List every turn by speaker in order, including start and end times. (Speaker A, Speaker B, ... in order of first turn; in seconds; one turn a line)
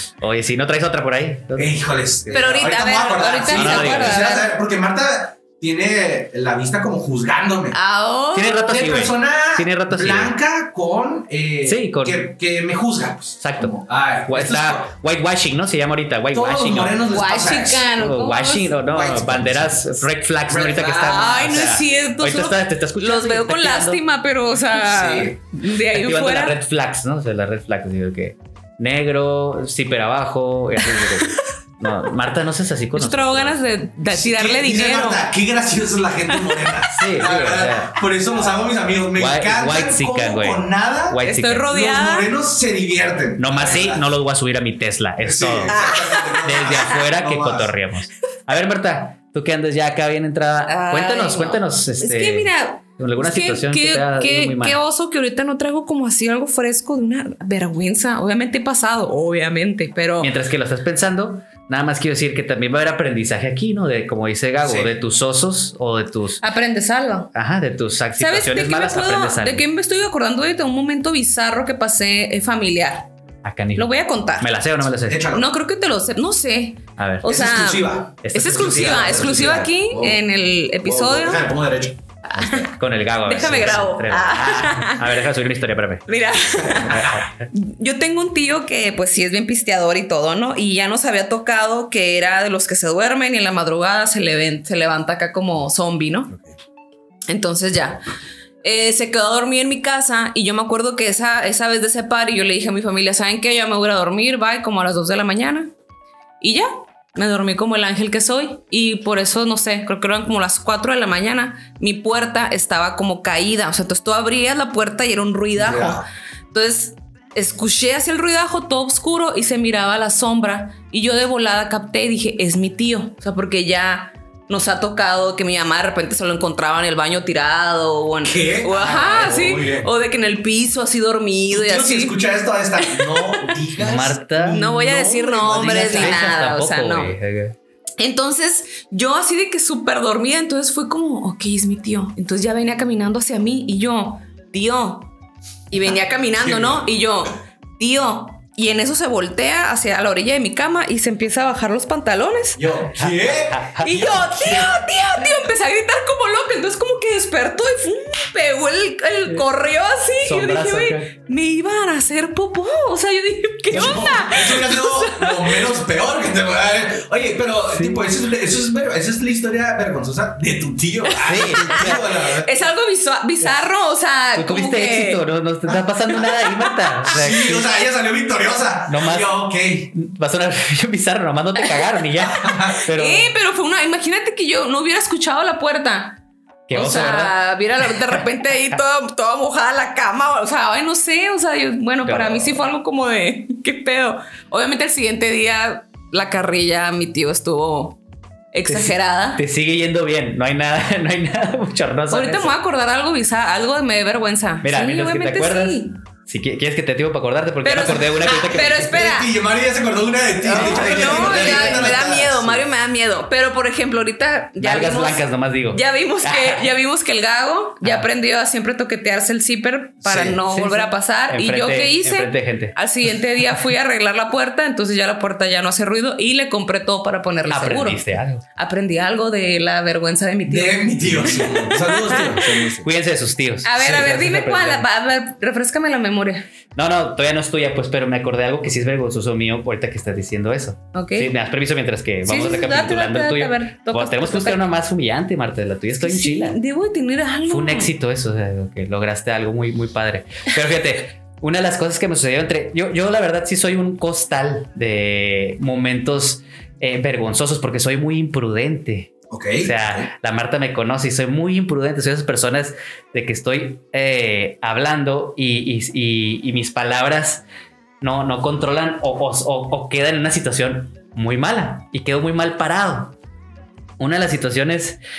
Speaker A: 0.2-2.5
Speaker B: 1.6-7.8
Speaker C: 2.3-4.5
Speaker A: 3.5-4.2
Speaker C: 7.7-8.6
Speaker A: 8.3-10.3
Speaker B: 8.6-14.9
Speaker A: 11.6-12.3
Speaker A: 13.4-17.1
Speaker B: 16.3-17.9
Speaker C: 17.1-18.8
Speaker A: 17.9-24.0
Speaker B: 18.9-21.4
Speaker C: 20.9-26.6
Speaker B: 24.7-25.4
Speaker A: 25.9-33.6
Speaker C: 30.9-31.3
Speaker C: 32.9-35.2
Speaker B: 34.1-44.1
Speaker C: 36.3-36.6
Speaker A: 36.9-38.0
Speaker A: 39.2-41.7
Speaker C: 41.2-42.3
Speaker A: 43.4-45.9
Speaker B: 45.2-47.7
Speaker C: 45.7-46.9
Speaker A: 46.4-54.8
Speaker C: 50.7-60.3
Speaker A: 60.2-66.4
Speaker B: 64.6-64.9
Speaker C: 66.4-67.3
Speaker A: 67.3-69.6
Speaker C: 68.2-73.1
Speaker A: 73.4-75.3
Speaker C: 73.8-74.5
Speaker B: 75.1-75.5
Speaker C: 75.3-81.4
Speaker A: 77.0-77.3
Speaker B: 77.2-80.2
Speaker A: 78.2-79.6
Speaker B: 80.8-82.5
Speaker C: 82.3-82.7
Speaker A: 82.3-86.0
Speaker C: 83.2-85.2
Speaker C: 86.1-96.3
Speaker A: 86.7-87.5
Speaker B: 86.8-87.1
Speaker C: 97.3-98.0
Speaker C: 98.6-105.7
Speaker C: 106.4-132.2
Speaker B: 115.6-116.0
Speaker B: 128.2-129.9
Speaker A: 128.9-129.4
Speaker B: 131.5-136.2
Speaker C: 132.8-133.6
Speaker A: 133.8-134.6
Speaker C: 134.5-137.1
Speaker A: 135.5-137.6
Speaker C: 138.0-145.1
Speaker C: 145.7-152.6
Speaker B: 146.4-146.9
Speaker B: 152.6-154.6
Speaker A: 152.9-154.7
Speaker C: 153.8-165.6
Speaker A: 160.2-161.1
Speaker B: 163.7-172.5
Speaker A: 163.7-164.1
Speaker A: 167.7-168.0
Speaker C: 171.1-175.2
Speaker A: 171.2-172.0
Speaker A: 174.3-177.7
Speaker C: 176.2-176.7
Speaker B: 177.1-179.9
Speaker A: 178.9-179.3
Speaker A: 179.9-183.3
Speaker B: 182.2-182.8
Speaker C: 182.9-186.2
Speaker A: 186.7-187.3
Speaker C: 186.7-198.0
Speaker A: 192.0-192.6
Speaker C: 198.5-199.4
Speaker A: 198.7-202.6
Speaker C: 202.1-205.9
Speaker A: 204.6-208.9
Speaker C: 207.6-209.3
Speaker B: 208.7-212.5
Speaker C: 210.4-232.5
Speaker A: 210.5-212.6
Speaker A: 214.6-216.7
Speaker B: 220.0-220.4
Speaker A: 220.4-222.8
Speaker A: 227.5-228.4
Speaker B: 230.5-232.9
Speaker A: 231.1-231.6
Speaker A: 232.8-234.8
Speaker C: 233.6-236.4
Speaker A: 236.8-246.6
Speaker C: 240.9-241.3
Speaker C: 242.2-244.6
Speaker C: 246.0-247.9
Speaker A: 247.5-267.4
Speaker B: 259.3-260.1
Speaker A: 268.0-273.1
Speaker A: 274.0-275.0